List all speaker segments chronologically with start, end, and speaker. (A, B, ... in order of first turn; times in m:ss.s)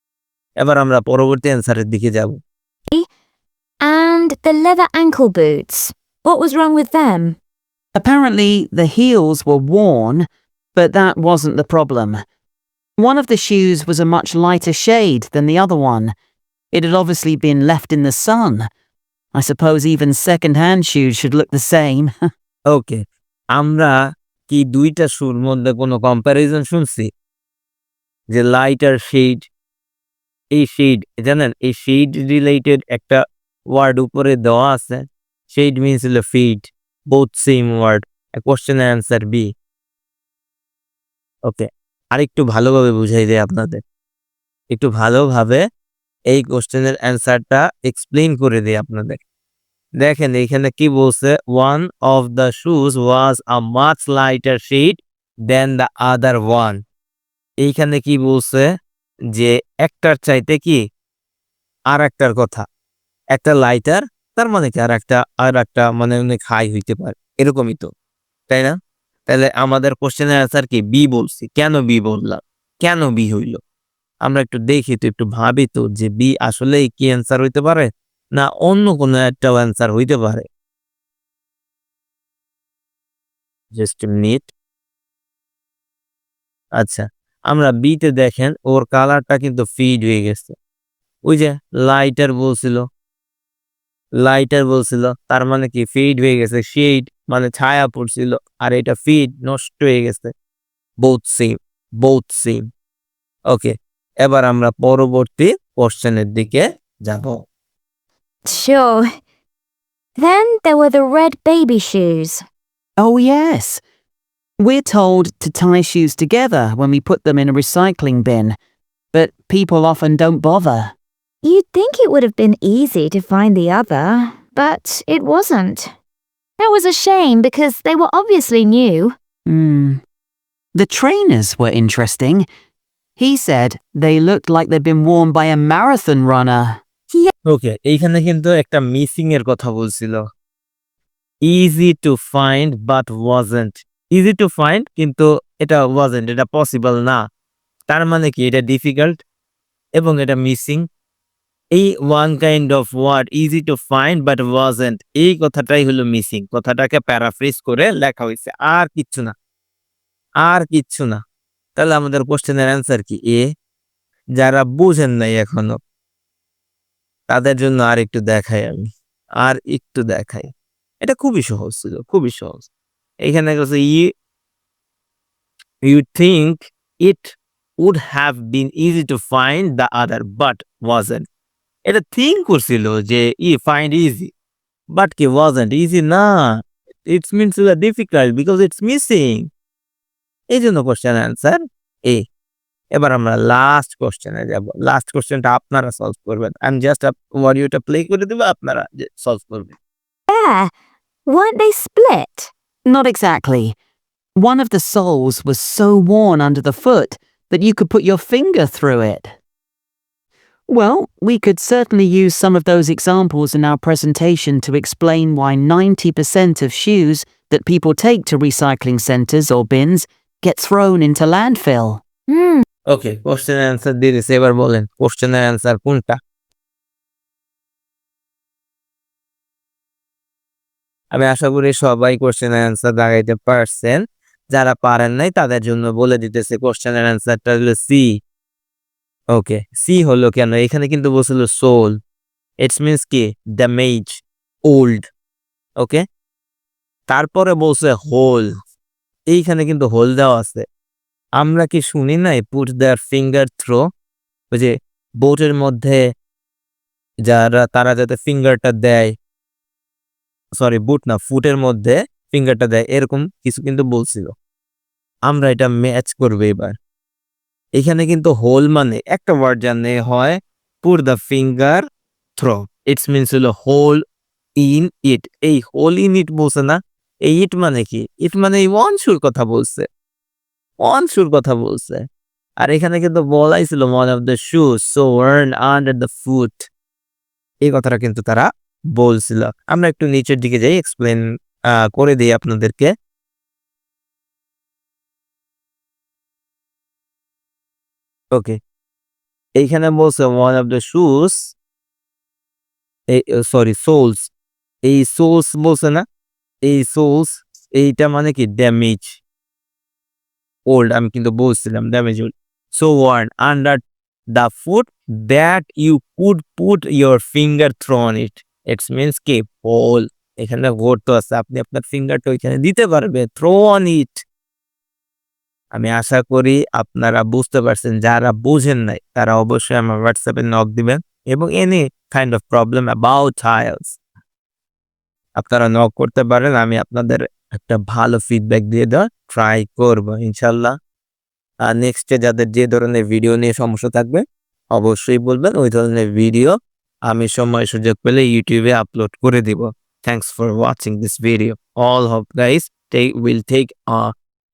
0:00.6-0:02.4 A
0:03.8-0:07.4 B
0:08.0-0:12.2 C
0:13.0-0:16.1 C
0:16.7-0:18.7 C
0:19.3-0:22.1 C
0:22.7-0:23.0 A
0:23.5-0:27.1 A
0:28.3-0:29.5 A
0:30.5-0:39.5 A
0:41.5-0:43.8 A
0:44.7-0:45.6 A
0:46.3-0:49.2 A
0:50.0-0:56.8 A
0:57.6-0:58.7 A
0:59.3-1:00.8 A
1:01.9-1:02.6 A
1:03.3-1:07.9 A
1:08.5-1:08.8 A
1:09.3-1:13.6 A
1:14.2-1:20.5 A
1:23.7-1:24.5 A
1:26.8-1:30.6 A
1:31.3-1:32.9 A
1:34.2-1:40.3 A
1:41.0-1:42.7 A
1:43.5-1:47.5 A
1:48.5-1:49.1 B
1:50.2-1:52.4 B
1:53.0-1:53.8 C
1:54.6-1:58.6 C
1:59.1-2:00.9 C
2:01.4-2:05.9 B
2:06.6-2:09.2 B
2:09.5-2:10.0 C
2:10.8-2:12.5 C
2:13.2-2:16.8 C
2:17.5-2:20.3 A
2:21.4-2:27.2 A
2:27.9-2:29.2 A
2:30.0-2:30.9 A
2:31.7-2:39.3 A
2:40.4-2:41.2 A
2:41.8-2:43.5 A
2:44.4-2:45.8 A
2:47.3-2:50.5 A
2:51.0-2:52.7 A
2:53.2-2:54.1 A
2:55.8-3:01.2 A
3:01.8-3:04.3 A
3:04.9-3:09.5 A
3:10.5-3:12.3 A
3:12.9-3:19.7 A
3:20.3-3:20.7 B
3:21.3-3:22.5 B
3:22.9-3:23.8 C
3:24.4-3:29.4 C
3:30.7-3:42.0 C
3:42.3-3:42.6 B
3:42.9-3:46.2 A
3:51.1-3:58.1 A
3:59.3-4:02.0 A
4:02.6-4:05.1 A
4:07.1-4:08.5 A
4:09.3-4:10.6 A
4:11.4-4:13.9 A
4:14.5-4:16.0 A
4:17.3-4:19.1 A
4:20.5-4:24.3 A
4:25.3-4:26.8 A
4:27.8-4:31.8 A
4:32.4-4:34.0 A
4:34.6-4:39.9 A
4:40.8-4:42.0 A
4:42.6-4:46.7 A
4:47.6-4:52.9 A
4:58.3-4:58.6 A
4:59.6-5:01.6 A
5:03.1-5:04.3 A
5:04.8-5:06.0 A
5:06.6-5:09.2 A
5:10.7-5:13.8 A
5:14.3-5:24.2 A
5:25.7-5:34.0 A
5:35.4-5:40.8 A
5:41.6-5:54.1 A